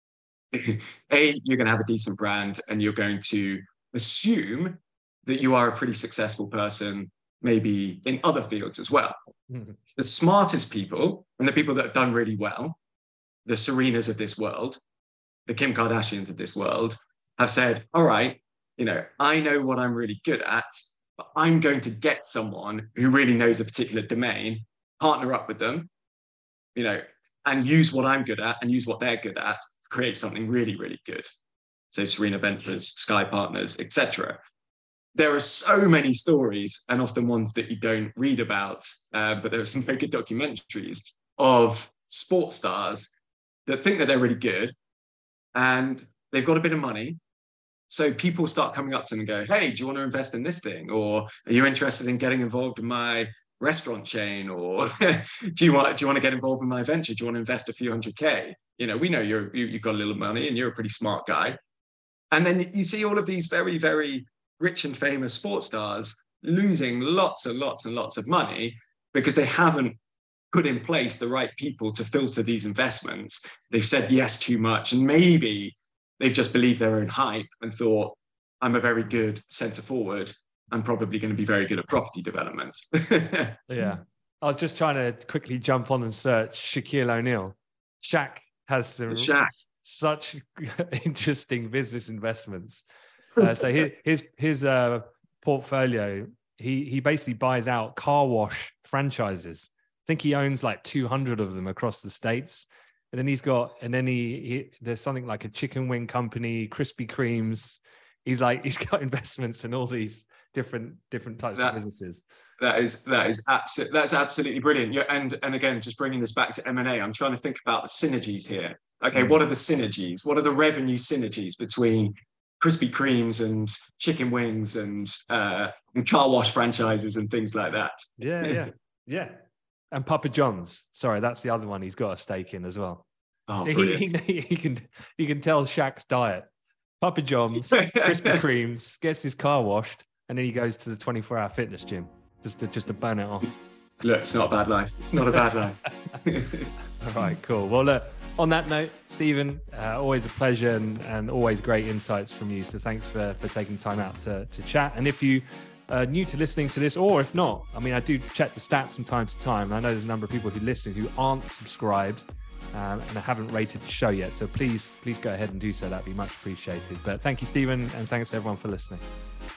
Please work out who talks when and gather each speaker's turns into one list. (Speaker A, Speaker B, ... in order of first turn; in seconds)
Speaker A: 0.5-9.2, 9.9-12.8, 13.4-14.8, 15.5-25.9, 26.7-31.3, 31.9-34.4, 35.1-43.1, 43.6-44.7, 45.5-47.2, 47.9-61.6, 62.3-70.0, 70.5-83.6, 89.1-89.5, 93.4-93.6, 112.6-128.6, 133.5-134.1, 137.7-138.4, 144.0-146.7
Speaker B: 9.5-9.8, 83.7-92.8, 93.3-112.2, 119.1-119.4, 128.2-129.3, 129.9-133.0, 133.6-136.5, 137.0-143.5, 147.0-169.0